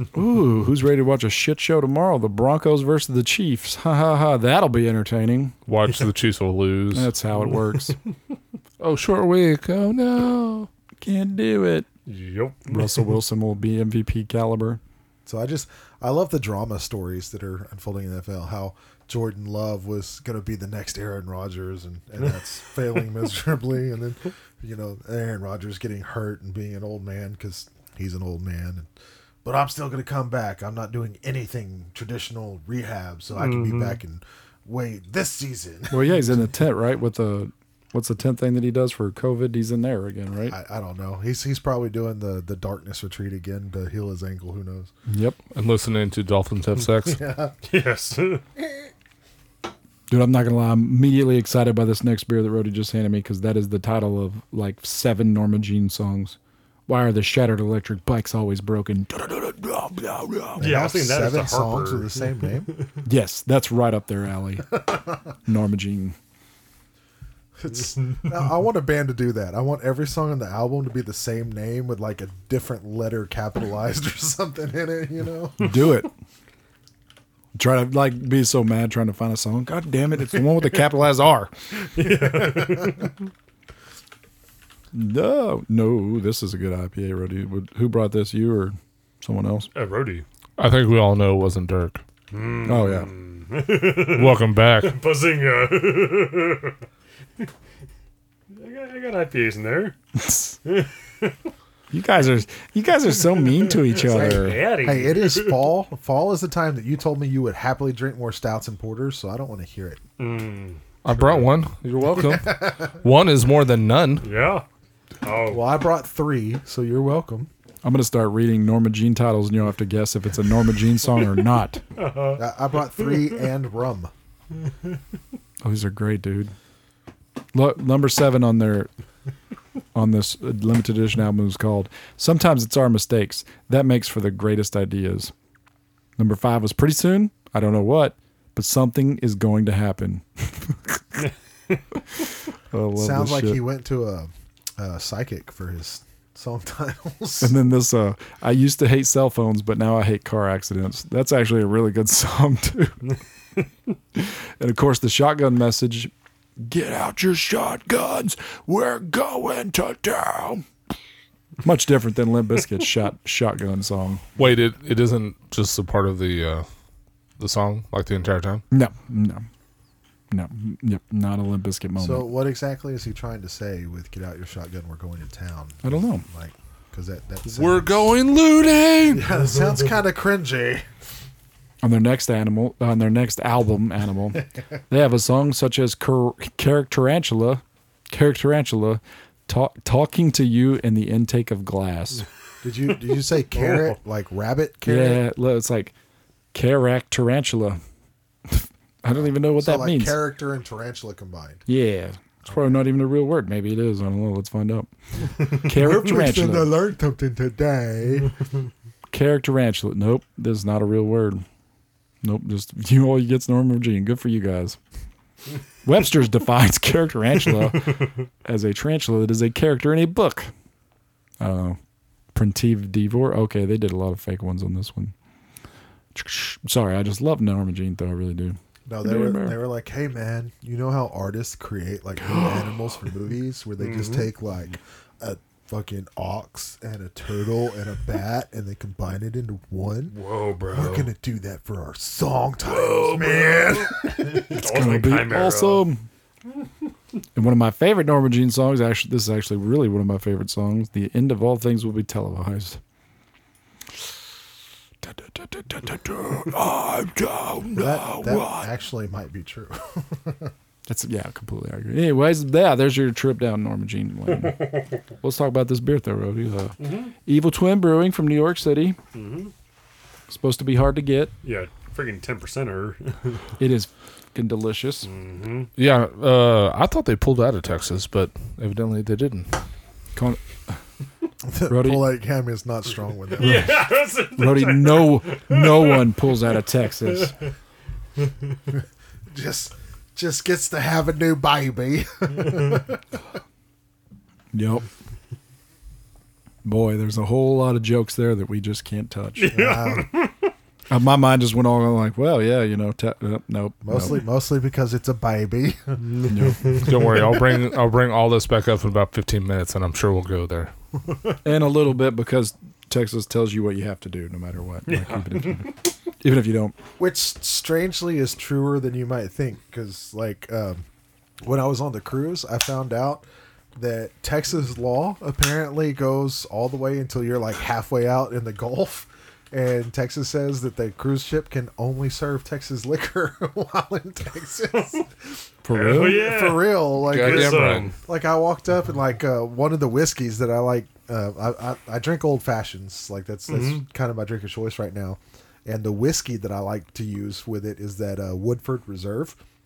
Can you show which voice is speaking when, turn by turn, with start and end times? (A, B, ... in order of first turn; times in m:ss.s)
0:00.1-0:05.6 A
0:05.7-0:07.1 B
0:06.9-0:08.0 A
0:08.8-0:10.7 B
0:11.0-0:11.9 A
0:12.1-0:13.1 C
0:12.7-0:14.8 A
0:15.2-0:28.9 D
0:29.4-0:36.4 D
0:33.3-0:34.0 C
0:35.9-0:40.6 A
0:40.5-0:44.9 D
0:45.1-0:45.4 A
0:45.5-0:47.2 B
0:47.0-0:47.5 D
0:47.6-0:48.4 C
0:50.1-1:00.7 A
1:00.6-1:02.8 D
1:00.6-1:02.8 C
1:03.0-1:04.8 A
1:04.7-1:05.2 D
1:05.4-1:06.2 A
1:07.6-1:15.8 D
1:15.6-1:16.1 A
1:17.5-1:21.5 A
1:21.9-1:23.1 C
1:22.0-1:23.0 D
1:24.9-1:29.7 A
1:29.7-1:30.2 C
1:30.6-1:32.0 B
1:32.3-1:36.8 C
1:32.7-1:33.1 A
1:34.0-1:34.9 B
1:38.5-1:40.0 C
1:40.2-1:40.6 A
1:40.6-1:41.4 C
1:41.9-1:44.6 A
1:43.5-1:45.6 C
1:44.0-1:50.0 D
1:50.2-1:51.5 C
1:51.0-1:54.2 B
1:52.2-1:52.9 D
1:54.2-1:54.6 C
1:55.2-1:55.7 C
1:55.5-1:57.5 D
1:57.8-2:01.8 A
2:02.0-2:02.4 C
2:02.4-2:04.1 D
2:05.6-2:06.5 A
2:07.5-2:08.9 A
2:09.9-2:15.3 A
2:16.2-2:21.2 A
2:22.7-2:23.6 A
2:23.0-2:27.5 D
2:27.4-2:33.1 A
2:34.1-2:40.6 A
2:41.6-2:44.2 A
2:44.4-2:46.6 B
2:47.4-2:48.6 B
2:48.7-2:49.4 A
2:50.3-2:52.3 A
2:52.0-2:58.1 D
2:55.8-2:56.2 A
2:57.4-2:59.3 B
2:59.1-3:00.8 D
3:01.8-3:12.2 A
3:12.6-3:15.2 D
3:13.5-3:14.0 C
3:14.8-3:15.9 A
3:16.5-3:17.8 A
3:18.5-3:20.2 A
3:19.1-3:21.6 D
3:21.7-3:26.8 A
3:25.4-3:28.4 D
3:29.1-3:31.4 A
3:32.2-3:34.8 A
3:35.8-3:40.5 A
3:41.4-3:41.8 A
3:42.3-3:45.1 A
3:46.1-3:49.6 A
3:48.9-4:00.1 D
3:53.8-3:54.3 C
4:00.1-4:01.1 C
4:00.7-4:04.6 D
4:02.6-4:05.9 C
4:04.4-4:06.0 A
4:07.3-4:12.8 A
4:15.0-4:18.7 A
4:17.7-4:20.5 D
4:20.9-4:24.7 A
4:24.4-4:24.9 C
4:25.2-4:29.0 A
4:26.8-4:27.1 C
4:29.1-4:29.5 C
4:30.3-4:31.3 A
4:31.4-4:33.4 C
4:33.6-4:35.1 A
4:35.0-4:35.7 C
4:35.8-4:39.5 B
4:40.1-4:40.8 A
4:41.4-4:43.7 D
4:41.7-4:42.0 A
4:43.4-4:46.2 C
4:43.4-4:47.3 A
4:47.0-4:47.5 C
4:49.3-4:53.0 D
4:54.5-4:54.8 A
4:56.6-4:59.7 A
4:59.4-5:00.5 C
4:59.5-5:00.2 D
5:00.9-5:04.2 A
5:03.8-5:06.3 D
5:06.0-5:07.3 C
5:06.3-5:06.8 A
5:06.8-5:10.7 B
5:11.4-5:16.8 A
5:14.9-5:15.8 C
5:17.0-5:20.8 D
5:21.4-5:23.2 D
5:23.8-5:49.4 D
5:35.6-5:36.3 A
5:35.7-5:38.0 C
5:37.0-5:37.9 B
5:43.5-5:43.8 C